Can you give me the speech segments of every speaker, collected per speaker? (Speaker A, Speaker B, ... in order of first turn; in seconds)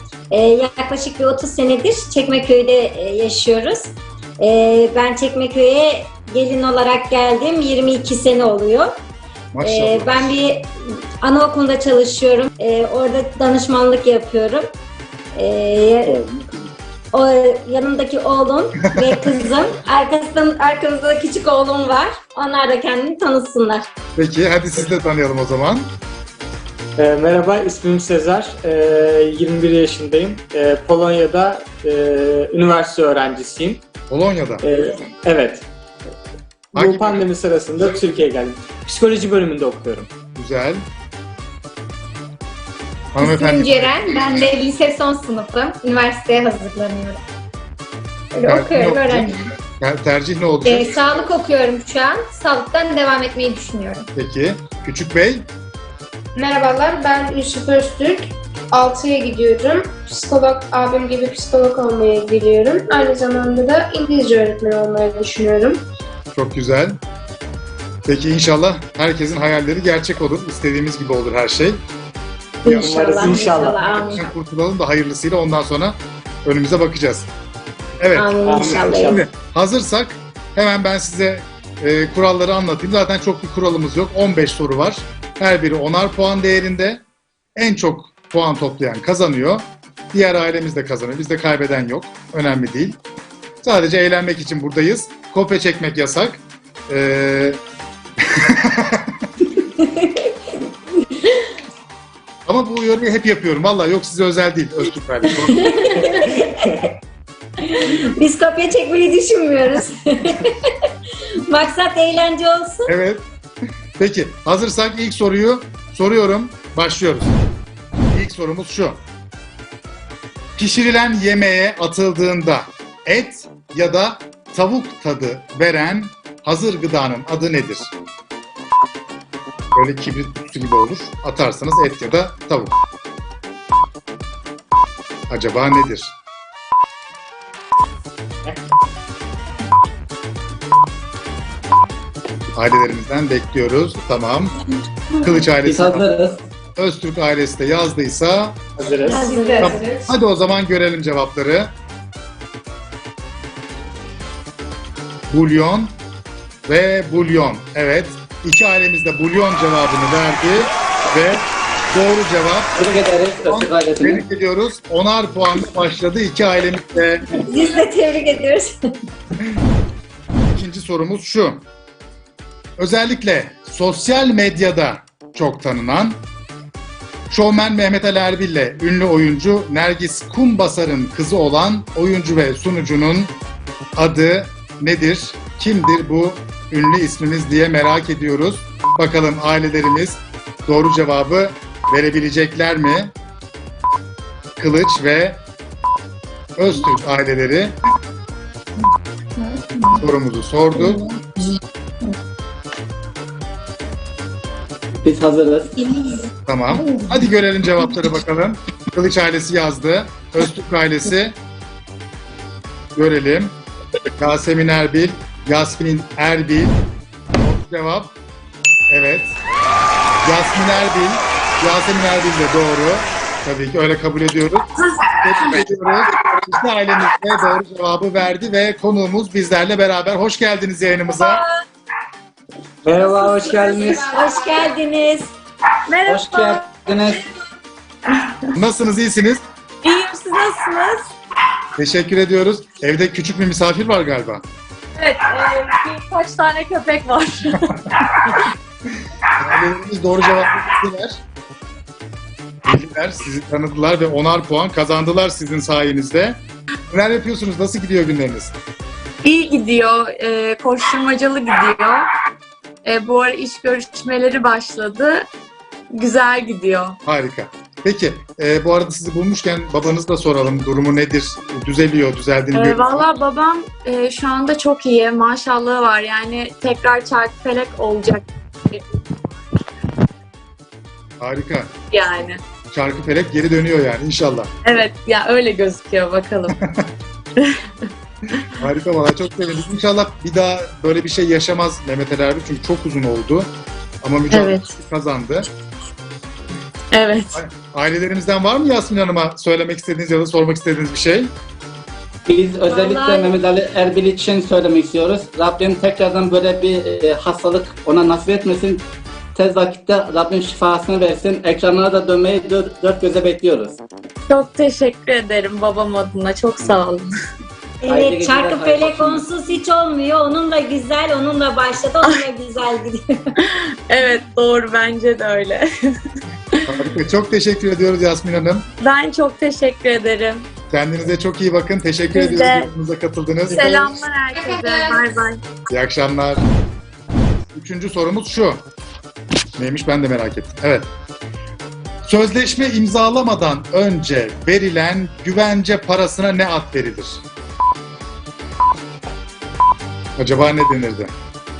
Speaker A: 0.3-9.0, 9.6-14.7, 15.3-16.2, 17.1-23.9, 72.6-74.2, 78.2-79.2, 99.6-100.2, 105.5-106.8, 107.6-110.6, 111.5-112.9, 149.1-149.8, 167.3-168.7, 233.9-235.3, 302.7-303.4, 317.8-323.1
Speaker B: 9.5-10.3, 18.9-19.3, 24.2-25.9, 34.1-34.6, 36.8-37.3, 40.3-40.9, 43.1-44.0, 48.5-51.2, 54.1-55.5, 66.3-67.0, 68.0-71.8, 74.1-77.3, 78.0-87.0, 87.6-93.0, 93.6-97.6, 98.2-99.3, 102.5-106.0, 112.9-113.3, 114.0-117.4, 118.1-119.0, 120.6-127.9, 129.7-132.8, 135.3-136.2, 142.6-144.6, 145.2-146.1, 146.8-148.6, 149.6-151.7, 155.3-156.0, 156.7-162.8, 163.4-167.3, 170.4-171.7, 172.8-176.2, 177.3-183.3, 183.9-193.1, 194.6-195.4, 196.6-197.8, 200.0-201.1, 206.5-211.4, 212.9-213.6, 214.2-216.8, 217.3-218.1, 218.9-219.4, 220.2-224.7, 225.2-231.4, 238.5-239.4, 241.8-244.4, 249.4-251.2, 252.7-258.6, 267.1-273.1, 281.2-281.7, 282.7-284.5, 286.6-286.9, 288.6-295.5, 297.3-301.3, 326.7-328.7, 330.7-333.8, 335.7-336.4, 337.5-338.6, 339.6-340.9, 342.0-347.2, 350.2-351.1
Speaker C: 16.1-16.4, 27.0-33.8, 34.6-35.7, 36.7-40.1, 72.7-74.0, 78.4-79.2, 148.8-149.2, 232.8-234.1
Speaker D: 43.2-47.2, 48.3-49.4, 50.6-54.1, 73.1-73.7, 78.4-79.2, 149.1-149.8, 199.4-200.0
Speaker E: 56.4-65.8, 149.3-150.0, 233.5-234.6, 334.4-335.0
Speaker F: 145.7-146.4, 162.8-164.2, 205.0-205.8, 236.1-237.2, 302.3-313.8, 317.9-319.3
Speaker G: 235.9-236.7, 238.1-238.5, 239.8-241.1, 245.0-247.8, 259.2-262.1, 262.9-265.3, 265.9-267.0, 272.5-279.1, 281.9-282.4, 284.6-286.6, 287.4-287.9, 294.3-294.7, 296.9-297.4, 314.3-317.1, 323.4-325.7, 328.8-330.5, 332.1-332.7, 333.5-335.4